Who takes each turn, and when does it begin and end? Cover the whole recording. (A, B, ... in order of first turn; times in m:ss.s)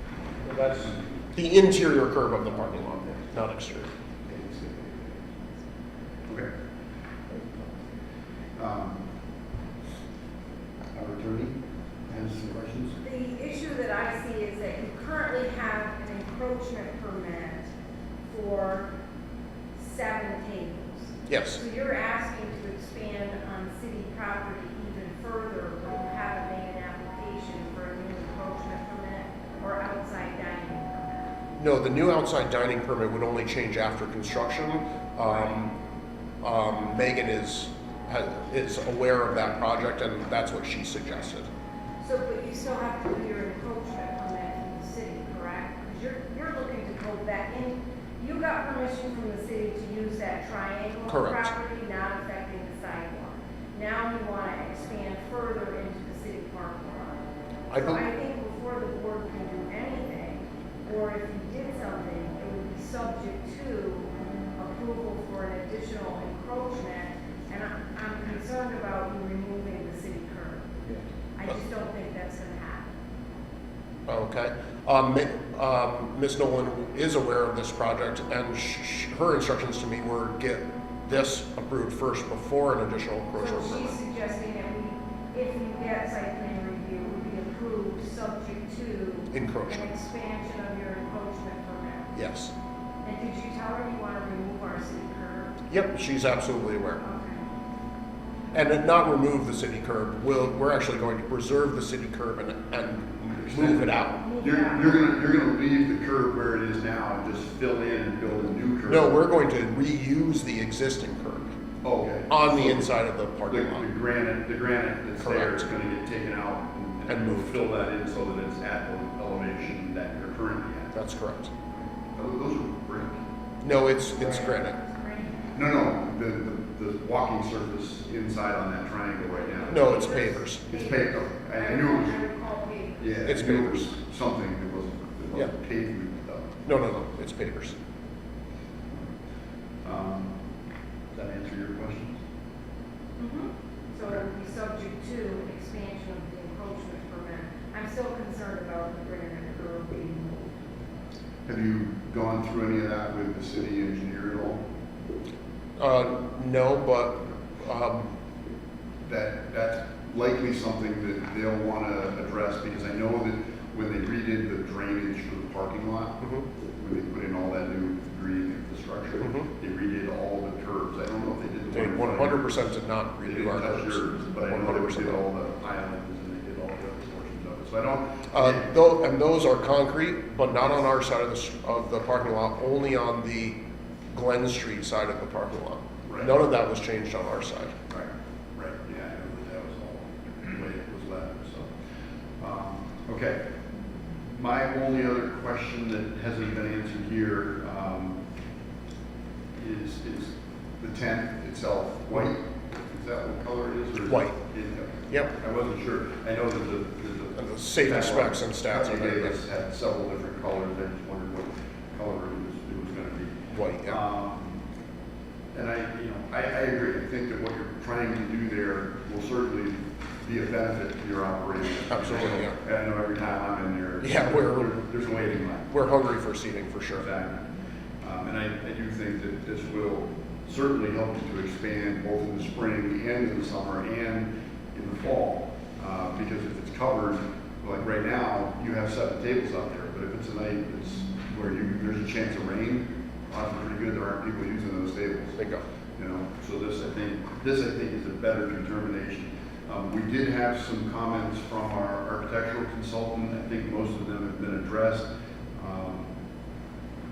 0:00.5-0:03.9 A
0:00.7-0:01.0 B
0:04.3-0:05.2 B
0:07.3-0:07.6 B
0:08.6-0:09.0 B
0:10.9-0:11.6 B
0:12.1-0:13.0 B
0:13.0-0:17.7 C
0:18.2-0:18.9 C
0:19.7-0:31.4 C
0:21.3-0:21.6 A
0:31.6-0:35.7 A
0:36.4-0:41.5 A
0:42.0-0:57.2 C
0:51.1-0:51.5 A
0:57.7-0:58.0 A
0:57.7-1:10.6 C
1:11.4-1:12.9 C
1:14.1-1:24.0 A
1:23.3-1:32.1 C
1:29.3-1:29.9 A
1:32.1-1:32.5 A
1:33.0-1:35.6 C
1:35.7-1:37.0 A
1:37.0-1:37.4 C
1:38.5-1:44.2 A
1:43.3-1:49.2 B
1:44.2-1:44.9 C
1:48.9-1:51.6 A
1:51.8-1:52.9 B
1:52.3-1:53.9 A
1:53.5-2:01.0 B
1:55.2-1:55.7 A
1:57.1-1:57.6 A
2:00.9-2:01.5 A
2:01.7-2:03.2 B
2:03.6-2:04.8 A
2:04.1-2:05.5 C
2:05.5-2:12.2 B
2:09.5-2:13.2 C
2:09.7-2:10.6 A
2:13.0-2:16.5 B
2:13.2-2:13.9 A
2:16.6-2:17.8 A
2:19.8-2:20.3 B
2:21.1-2:22.2 B
2:23.2-2:30.5 C
2:31.4-2:34.6 B
2:35.8-2:38.1 A
2:39.0-2:46.2 B
2:46.2-2:46.4 A
2:46.8-2:52.7 B
2:49.2-2:49.5 A
2:51.7-2:55.2 A
2:53.2-2:58.7 B
2:58.3-3:03.6 A
3:04.1-3:07.7 A
3:06.0-3:06.3 B
3:07.9-3:11.7 B
3:12.4-3:13.4 B
3:14.2-3:18.2 B
3:19.5-3:34.6 B
3:24.0-3:24.4 A
3:27.4-3:29.4 A
3:33.5-3:34.0 A
3:35.5-3:45.7 B
3:41.9-3:42.6 A
3:44.0-3:44.8 A
3:45.7-3:47.0 A
3:46.9-3:47.5 B
3:48.0-4:05.4 B
4:05.4-4:05.6 A
4:06.0-4:16.1 B